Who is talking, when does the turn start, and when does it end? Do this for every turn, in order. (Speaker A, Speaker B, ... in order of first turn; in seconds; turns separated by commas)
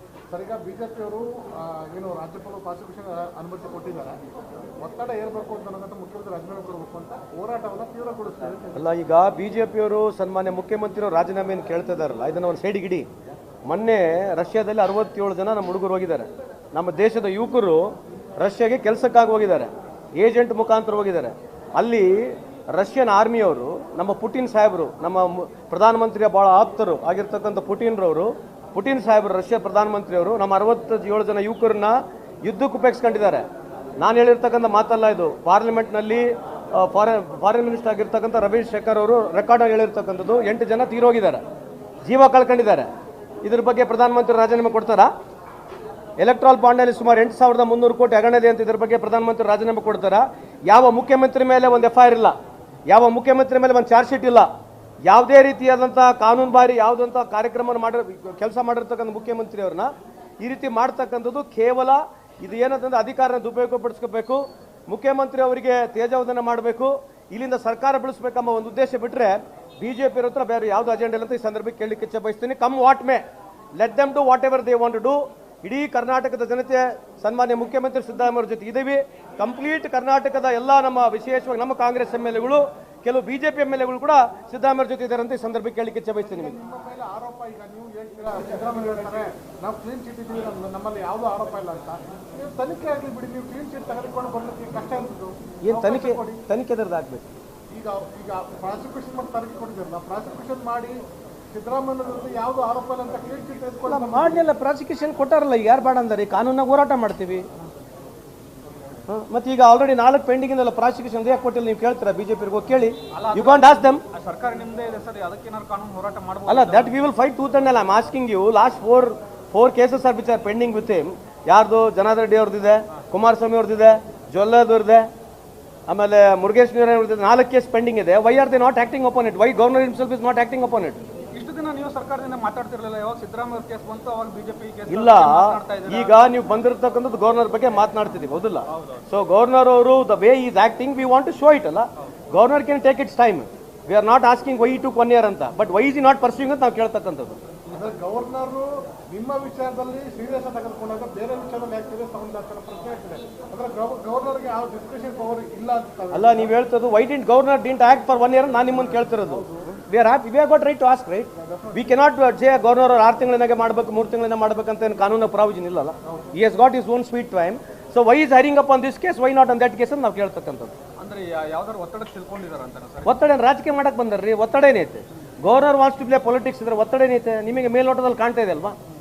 Speaker A: 0.3-4.2, Speaker A: 4.8-8.8, Speaker B: 8.7-13.1, Speaker B: 13.7-33.4, Speaker B: 34.0-41.4, Speaker B: 42.0-42.9, Speaker B: 43.4-45.1, Speaker B: 46.2-52.3, Speaker B: 52.9-54.5, Speaker B: 55.0-59.9, Speaker B: 60.4-73.2, Speaker B: 73.8-86.5, Speaker A: 86.2-96.4, Speaker B: 95.6-97.3, Speaker A: 97.7-101.0, Speaker A: 101.5-104.5, Speaker B: 103.9-107.5, Speaker B: 109.1-114.0, Speaker C: 113.1-117.0, Speaker B: 116.5-125.1, Speaker B: 125.9-131.0, Speaker C: 131.3-136.2, Speaker B: 134.9-147.4, Speaker C: 138.7-139.0, Speaker A: 147.7-156.6, Speaker B: 156.1-170.7, Speaker A: 158.7-159.7, Speaker A: 161.3-162.0, Speaker A: 166.0-166.3, Speaker C: 171.0-173.2, Speaker B: 173.0-178.8